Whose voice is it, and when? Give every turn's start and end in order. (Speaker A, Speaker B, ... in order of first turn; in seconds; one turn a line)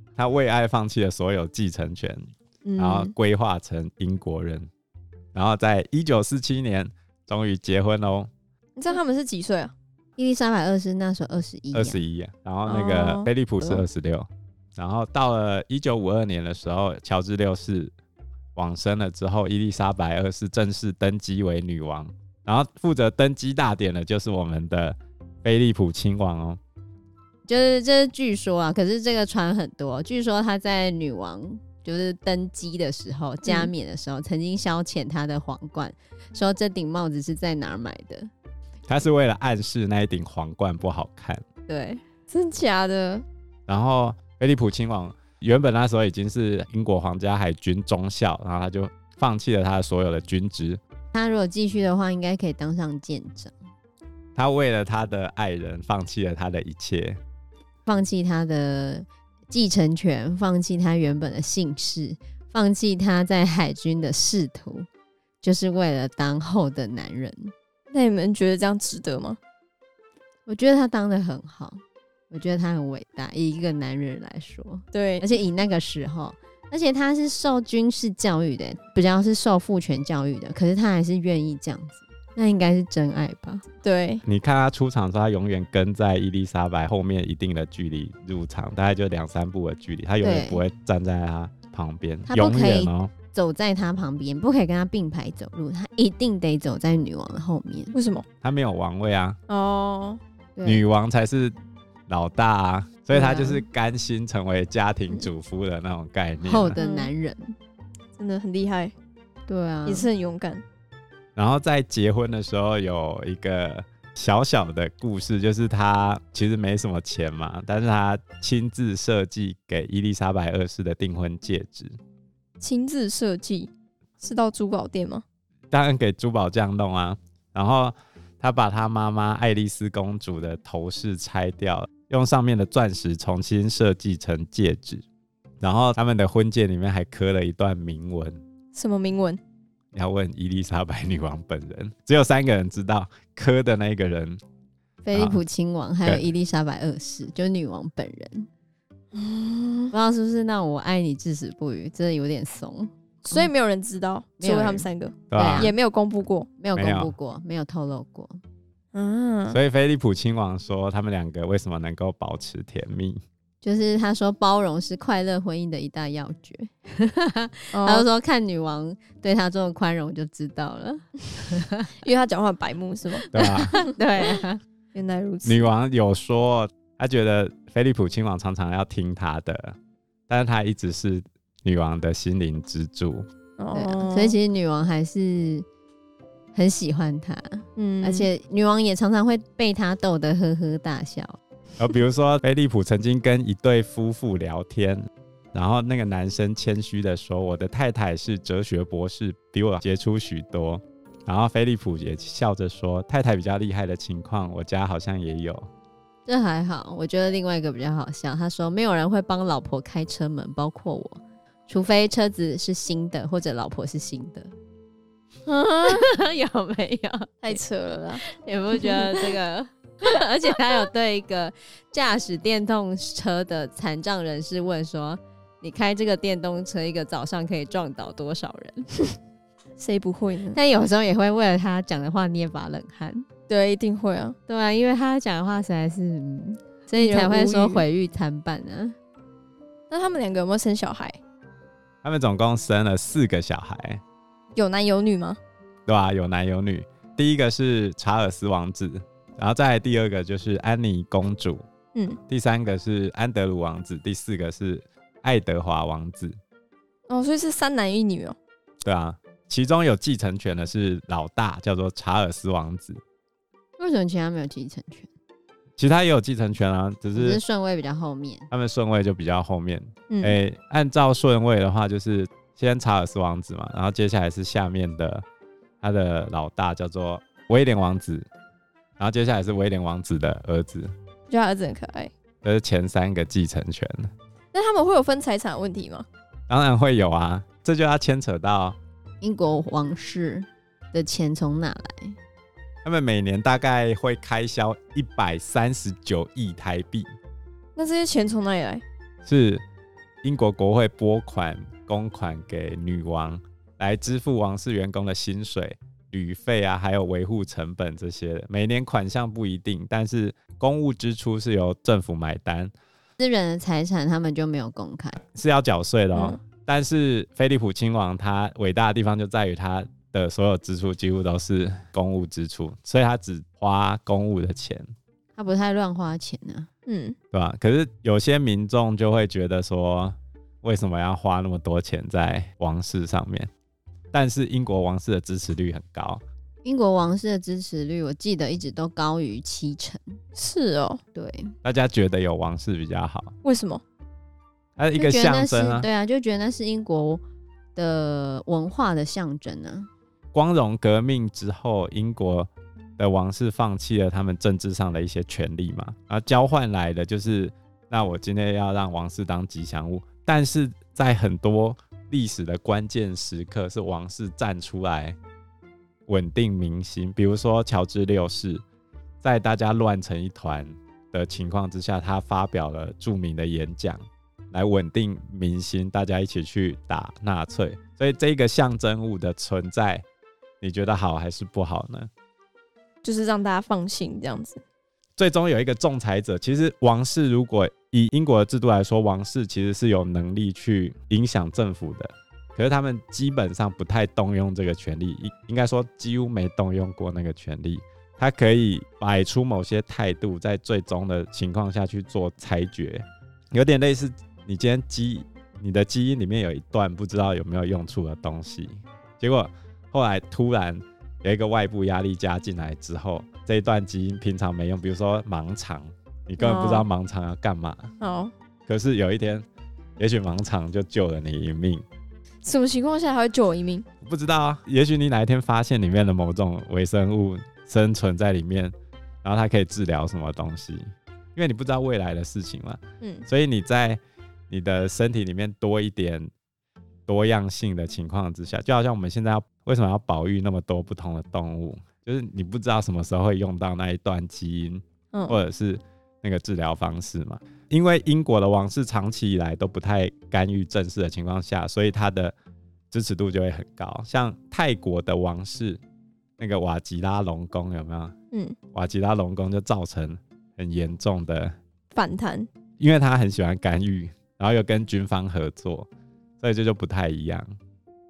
Speaker A: 0.2-4.7
Speaker B: 2.6-3.1
Speaker A: 5.3-8.3
Speaker B: 8.8-9.7
Speaker C: 10.2-12.0
Speaker A: 11.7-17.9
Speaker B: 12.7-13.8
Speaker A: 18.6-26.6
Speaker C: 27.4-38.3
Speaker B: 33.4-33.7
Speaker A: 38.9-41.4
Speaker C: 41.7-42.0
Speaker B: 42.3-43.2
Speaker A: 43.7-50.8
Speaker C: 51.1-53.5
Speaker A: 54.4-57.2
Speaker C: 57.9-64.9
Speaker C: 65.4-67.5
Speaker B: 67.9-69.4
Speaker C: 70.5-83.6
Speaker B: 74.9-75.2
Speaker B: 83.8-84.2
Speaker A: 84.2-93.1
Speaker C: 90.2-90.6
Speaker C: 92.3-97.9
Speaker B: 97.9-98.2
Speaker A: 98.4-99.4
Speaker B: 99.5-100.2
Speaker C: 100.5-100.8
Speaker A: 100.6-101.5
Speaker A: 102.1-106.8
Speaker C: 103.1-103.6
Speaker C: 106.4-107.5
Speaker B: 106.8-107.1
Speaker B: 108.2-108.9
Speaker C: 109.5-110.1
Speaker B: 109.8-110.6
Speaker A: 111.3-122.0
Speaker B: 122.6-125.2
Speaker A: 125.7-135.0
Speaker A: 135.6-138.4
Speaker B: 138.7-139.4
Speaker A: 139.9-144.4
Speaker C: 145.0-148.5
Speaker A: 145.1-145.4
Speaker B: 149.1-149.9
Speaker C: 149.9-153.5
Speaker B: 153.3-156.5
Speaker C: 154.4-155.7
Speaker A: 155.3-155.7
Speaker C: 156.6-158.4
Speaker A: 156.7-157.1
Speaker B: 158.9-159.6
Speaker A: 159.5-163.2
Speaker C: 163.6-171.9
Speaker B: 167.7-168.0
Speaker B: 172.0-173.9
Speaker C: 173.3-174.6
Speaker A: 173.3-173.7
Speaker B: 174.9-175.7
Speaker A: 175.4-179.8
Speaker A: 180.3-183.2
Speaker B: 183.6-184.4
Speaker C: 183.7-185.7
Speaker C: 186.5-191.4
Speaker B: 187.8-188.3
Speaker A: 191.8-205.7
Speaker C: 206.2-214.5
Speaker B: 215.5-216.0
Speaker C: 215.8-217.6
Speaker B: 217.4-219.3
Speaker C: 218.2-229.1
Speaker B: 229.8-230.6
Speaker C: 230.5-233.2
Speaker B: 233.5-234.3
Speaker C: 234.5-238.9
Speaker B: 236.9-237.8
Speaker B: 239.9-241.2
Speaker A: 242.0-244.0
Speaker B: 244.5-245.4
Speaker A: 245.9-251.6
Speaker B: 251.9-252.2
Speaker A: 252.3-256.4
Speaker B: 257.1-258.4
Speaker A: 258.8-263.0
Speaker C: 263.8-265.1
Speaker A: 265.8-267.4
Speaker C: 267.1-268.5
Speaker A: 268.5-275.2
Speaker B: 270.1-270.4
Speaker A: 275.8-278.2
Speaker A: 279.0-280.9
Speaker B: 281.3-282.1
Speaker A: 282.4-284.1
Speaker B: 284.5-286.1
Speaker A: 286.5-288.8
Speaker C: 289.2-292.2
Speaker A: 292.8-297.1
Speaker B: 297.8-298.8
Speaker A: 299.2-299.6
Speaker A: 300.2-312.7
Speaker C: 313.2-315.2
Speaker A: 315.2-324.9
Speaker B: 316.1-316.4
Speaker C: 325.3-326.7
Speaker B: 326.9-327.1
Speaker A: 327.3-333.5
Speaker A: 334.1-336.2
Speaker C: 336.6-340.1
Speaker B: 340.4-341.0
Speaker C: 341.1-341.5
Speaker A: 341.6-343.3
Speaker B: 343.4-343.8
Speaker A: 344.8-345.9
Speaker C: 344.9-347.2
Speaker C: 347.7-349.9
Speaker A: 350.3-365.2
Speaker A: 366.1-368.6
Speaker A: 369.2-380.0
Speaker A: 380.6-382.1
Speaker B: 383.0-384.6
Speaker A: 385.2-417.9
Speaker B: 416.4-416.9
Speaker B: 418.0-418.3
Speaker A: 418.7-419.4
Speaker A: 420.0-421.8
Speaker B: 422.4-423.9
Speaker A: 424.0-436.3
Speaker B: 433.0-433.2
Speaker A: 437.1-452.3
Speaker B: 445.1-445.4
Speaker A: 452.9-455.8
Speaker A: 456.4-458.1
Speaker A: 458.7-461.5
Speaker B: 461.9-462.5
Speaker A: 462.8-465.9
Speaker A: 466.4-467.5